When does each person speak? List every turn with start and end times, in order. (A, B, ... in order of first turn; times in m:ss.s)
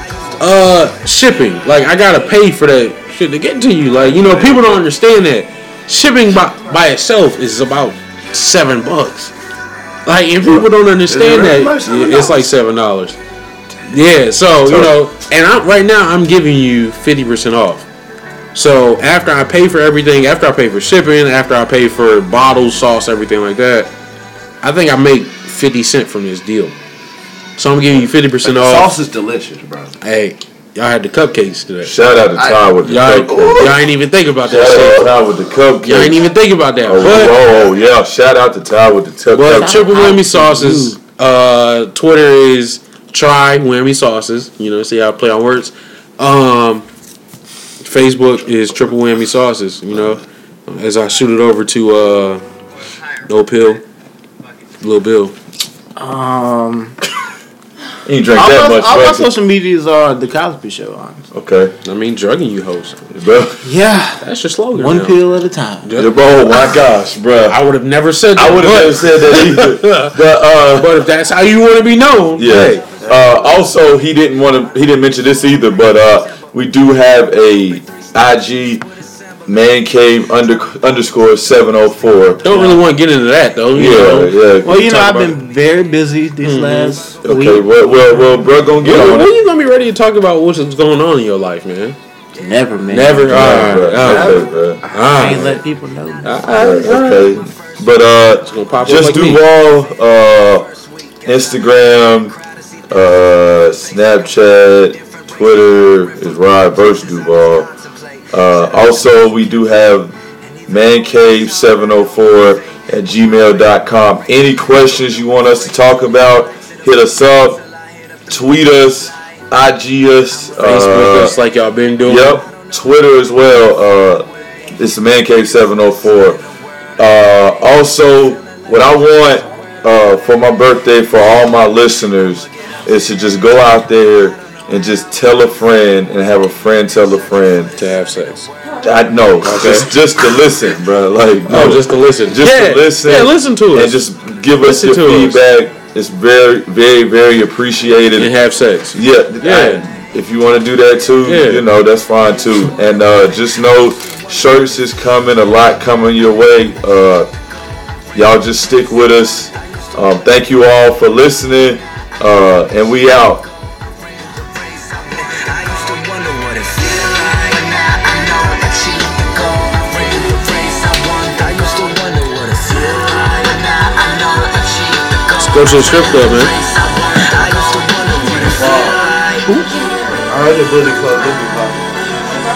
0:00.4-0:09.3 A
0:04.1-0:04.6 B
0:04.3-0:04.8 C
0:10.0-0:13.2 A
0:11.1-0:12.5 B
0:13.9-0:17.9 A
0:14.6-0:15.0 C
0:18.5-0:23.9 A
0:24.6-0:26.7 A
0:27.6-0:29.0 A
0:28.4-0:29.9 B
0:30.0-0:32.0 A
0:31.8-0:33.8 C
0:32.4-0:33.9 B
0:32.8-0:35.1 A
0:34.4-0:36.2 C
0:34.5-0:35.1 B
0:35.8-0:37.4 A
0:36.8-0:39.9 C
0:39.3-0:46.9 A
0:39.4-0:41.0 D
0:47.8-0:52.4 A
0:53.2-0:53.8 A
0:54.8-0:55.3 A
0:56.0-0:57.0 D
0:58.0-0:59.3 C
0:58.3-1:01.2 D
1:01.3-1:01.7 C
1:01.8-1:03.1 A
1:03.1-1:03.7 C
1:03.6-1:05.9 D
1:04.2-1:05.2 A
1:05.8-1:06.8 A
1:05.9-1:07.6 C
1:07.5-1:10.2 A
1:08.3-1:11.0 C
1:10.7-1:12.8 A
1:12.4-1:18.8 C
1:12.8-1:14.0 E
1:19.4-1:22.4 C
1:22.4-1:25.3 A
1:22.4-1:22.8 D
1:23.7-1:25.3 C
1:24.6-1:27.9 D
1:26.4-1:27.0 A
1:27.2-1:29.4 C
1:28.8-1:32.0 A
1:32.4-1:33.7 D
1:32.9-1:35.6 A
1:33.3-1:34.8 C
1:34.0-1:35.4 B
1:34.9-1:36.5 D
1:36.2-1:37.4 A
1:36.4-1:40.7 C
1:38.4-1:39.4 A
1:40.7-1:43.9 E
1:41.2-1:42.4 C
1:42.9-1:47.7 C
1:44.9-1:48.7 E
1:48.3-1:50.1 C
1:50.7-1:57.6 C
1:58.3-2:01.4 C
2:00.6-2:02.4 A
2:02.0-2:06.4 C
2:07.0-2:17.7 C
2:17.8-2:18.5 A
2:18.8-2:28.3 C
2:19.4-2:20.0 A
2:21.5-2:24.0 A
2:24.6-2:25.4 A
2:28.1-2:29.8 A
2:28.9-2:37.3 C
2:31.2-2:31.6 A
2:38.1-2:43.4 C
2:44.0-3:00.3 E
2:55.4-2:56.5 A
2:58.2-2:59.0 B
3:00.3-3:02.3 B